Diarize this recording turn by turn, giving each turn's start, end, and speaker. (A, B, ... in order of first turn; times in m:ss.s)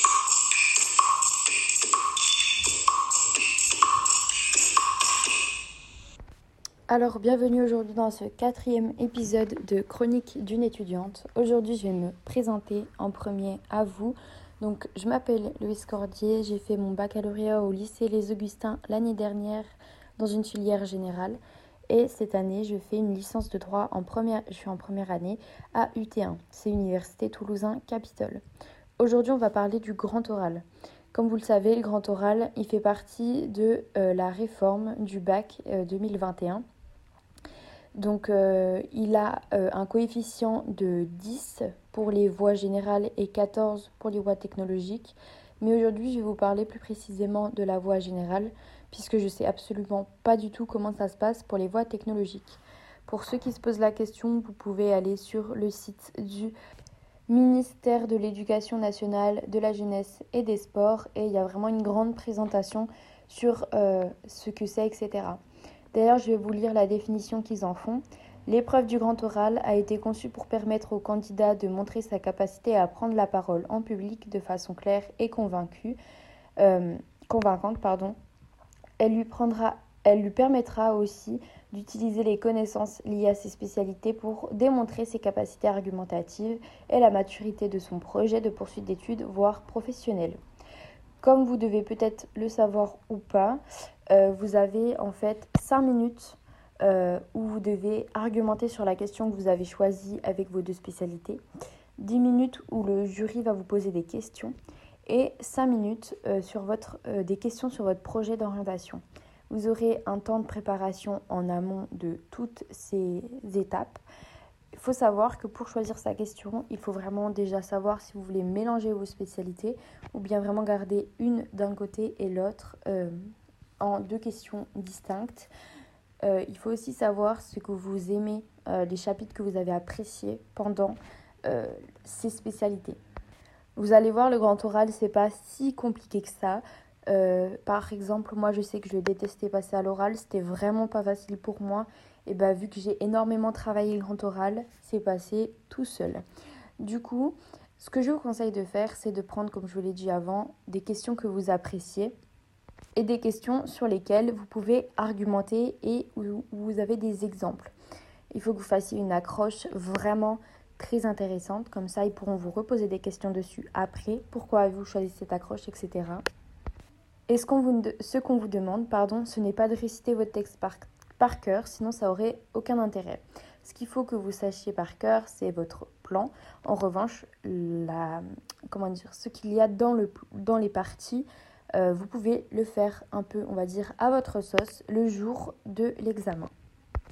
0:06.9-0:28.4 A
0:29.0-0:36.6 A
0:38.0-0:56.5 A
0:57.3-1:05.4 A
1:05.9-1:16.0 A
1:16.6-1:18.2 A
1:19.0-1:30.4 A
1:31.2-1:41.4 A
1:42.0-1:44.5 A
1:45.1-1:54.0 A
1:54.7-2:03.2 A
2:03.8-2:05.5 A
2:06.2-2:13.0 A
2:13.8-2:26.2 A
2:26.8-2:32.1 A
2:33.0-2:37.7 A
2:38.3-2:46.2 A
2:47.3-3:06.5 A